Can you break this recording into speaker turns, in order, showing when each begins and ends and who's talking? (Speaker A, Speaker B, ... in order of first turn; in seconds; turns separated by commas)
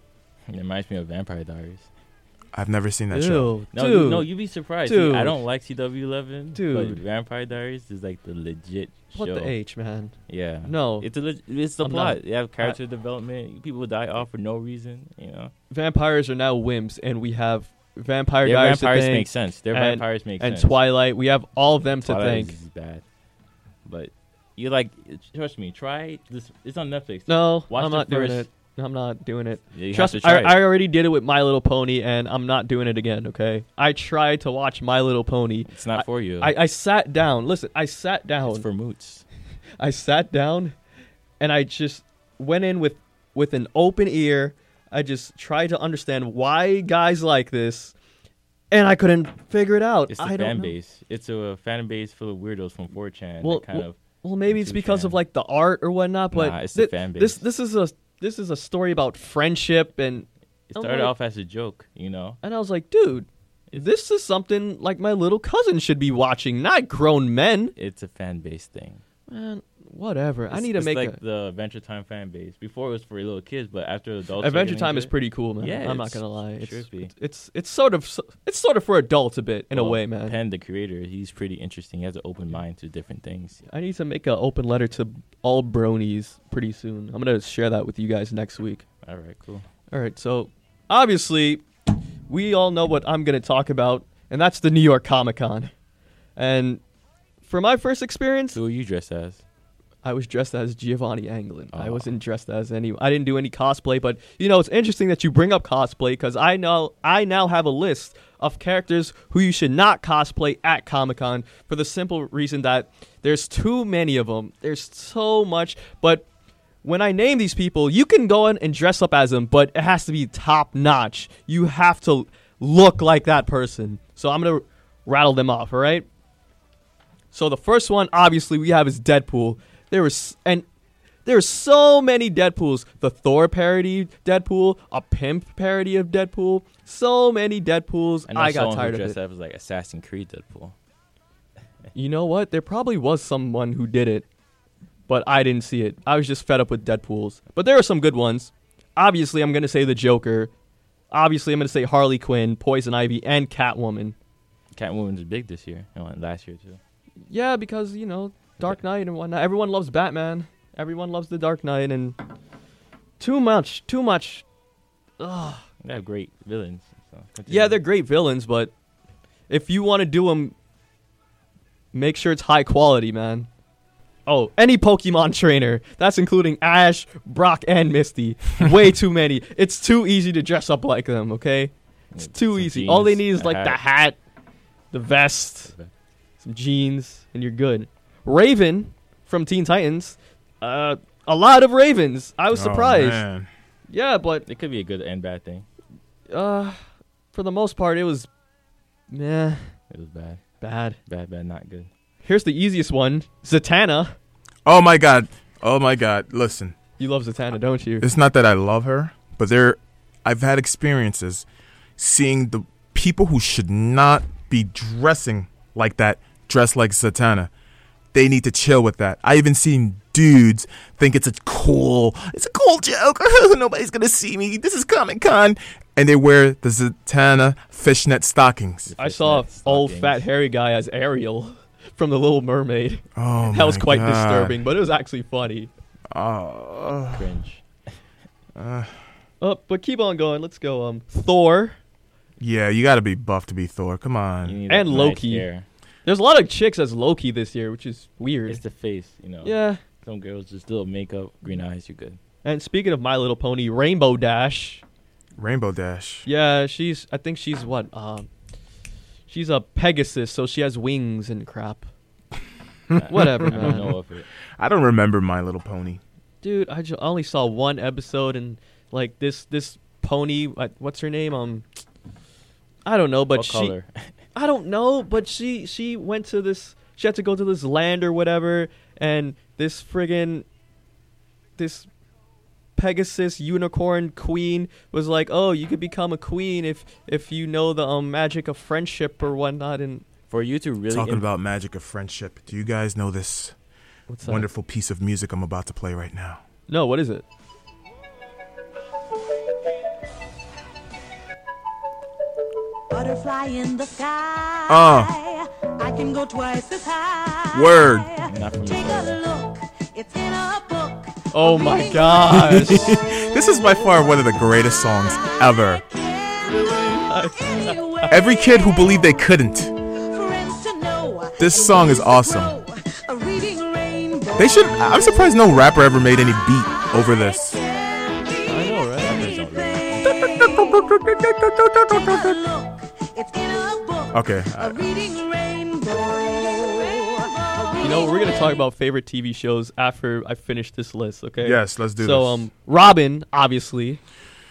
Speaker A: 0.5-1.9, Speaker B: 2.5-3.5, Speaker C: 3.1-4.2, Speaker A: 3.7-9.5, Speaker C: 4.8-5.4, Speaker C: 6.5-7.0, Speaker C: 9.1-10.1, Speaker A: 10.3-15.5, Speaker C: 10.6-11.1, Speaker C: 11.8-12.8, Speaker C: 15.7-22.5, Speaker A: 18.4-20.8, Speaker A: 22.0-23.0, Speaker A: 23.8-28.5, Speaker C: 27.3-38.6, Speaker A: 29.7-30.7, Speaker A: 35.7-36.5, Speaker A: 38.4-39.2, Speaker C: 39.8-40.7, Speaker C: 41.4-47.9, Speaker C: 48.7-50.7, Speaker A: 50.1-55.2, Speaker C: 53.4-61.1, Speaker A: 56.3-57.4, Speaker A: 60.7-62.4, Speaker C: 62.4-67.7, Speaker A: 67.8-69.0, Speaker C: 69.3-71.2, Speaker A: 70.5-77.1, Speaker C: 74.4-80.4, Speaker A: 79.7-83.6, Speaker C: 83.7-88.8, Speaker A: 89.0-89.7, Speaker C: 89.9-91.6, Speaker C: 92.3-95.7, Speaker C: 96.3-96.8, Speaker C: 97.5-98.6, Speaker A: 98.5-99.4, Speaker C: 100.0-116.2, Speaker A: 101.7-102.0, Speaker C: 116.8-126.0, Speaker C: 127.3-130.7, Speaker C: 131.2-139.2, Speaker A: 138.3-140.7, Speaker C: 141.9-144.2, Speaker C: 145.1-150.5, Speaker C: 151.1-154.1, Speaker A: 154.7-156.8, Speaker C: 157.3-162.2, Speaker C: 163.2-164.4, Speaker C: 165.2-165.6, Speaker A: 165.8-167.8, Speaker C: 167.5-168.7, Speaker C: 169.5-170.5, Speaker C: 171.9-173.5, Speaker C: 174.2-184.2, Speaker A: 182.1-183.8, Speaker C: 184.9-185.7, Speaker C: 186.4-193.2, Speaker B: 192.5-193.5, Speaker C: 193.9-194.4, Speaker A: 194.5-195.7, Speaker C: 196.3-198.3, Speaker C: 199.1-199.7, Speaker A: 199.9-200.4, Speaker C: 200.6-201.0, Speaker A: 201.1-201.9, Speaker C: 202.2-204.2, Speaker B: 204.7-206.8, Speaker C: 207.0-208.1, Speaker B: 208.0-211.4, Speaker B: 212.0-217.5, Speaker B: 218.1-228.9, Speaker A: 228.9-230.3, Speaker C: 229.0-235.7, Speaker B: 233.1-234.6, Speaker B: 236.1-237.3, Speaker A: 237.1-237.6, Speaker B: 238.5-238.9, Speaker C: 239.4-241.8, Speaker B: 242.4-244.6, Speaker A: 244.4-245.7, Speaker C: 244.7-245.4, Speaker C: 246.0-248.6, Speaker A: 248.5-252.2, Speaker C: 249.4-249.8, Speaker C: 252.4-254.8, Speaker B: 255.4-256.3, Speaker C: 256.2-258.3, Speaker C: 259.3-261.9, Speaker B: 262.9-263.9, Speaker A: 262.9-264.2, Speaker C: 263.1-263.9, Speaker B: 264.6-266.0, Speaker C: 266.4-271.6, Speaker C: 272.8-273.7, Speaker A: 273.3-274.1, Speaker C: 274.3-280.4, Speaker C: 281.6-281.9, Speaker C: 282.8-290.0, Speaker A: 290.3-291.2, Speaker B: 290.9-293.5, Speaker C: 294.1-294.5, Speaker B: 294.2-296.4, Speaker C: 296.7-297.2, Speaker D: 302.9-314.2, Speaker B: 304.7-305.1, Speaker B: 307.5-308.1, Speaker A: 308.3-309.2, Speaker C: 311.3-313.0, Speaker B: 312.7-315.8, Speaker D: 315.1-319.1, Speaker C: 316.4-318.0, Speaker B: 318.1-319.7, Speaker D: 319.9-325.5, Speaker B: 321.4-322.5, Speaker B: 324.4-327.6, Speaker D: 326.7-338.6, Speaker C: 328.5-329.2, Speaker A: 329.0-330.2, Speaker B: 330.0-332.4, Speaker B: 334.1-334.8, Speaker C: 337.8-344.0, Speaker B: 341.4-342.5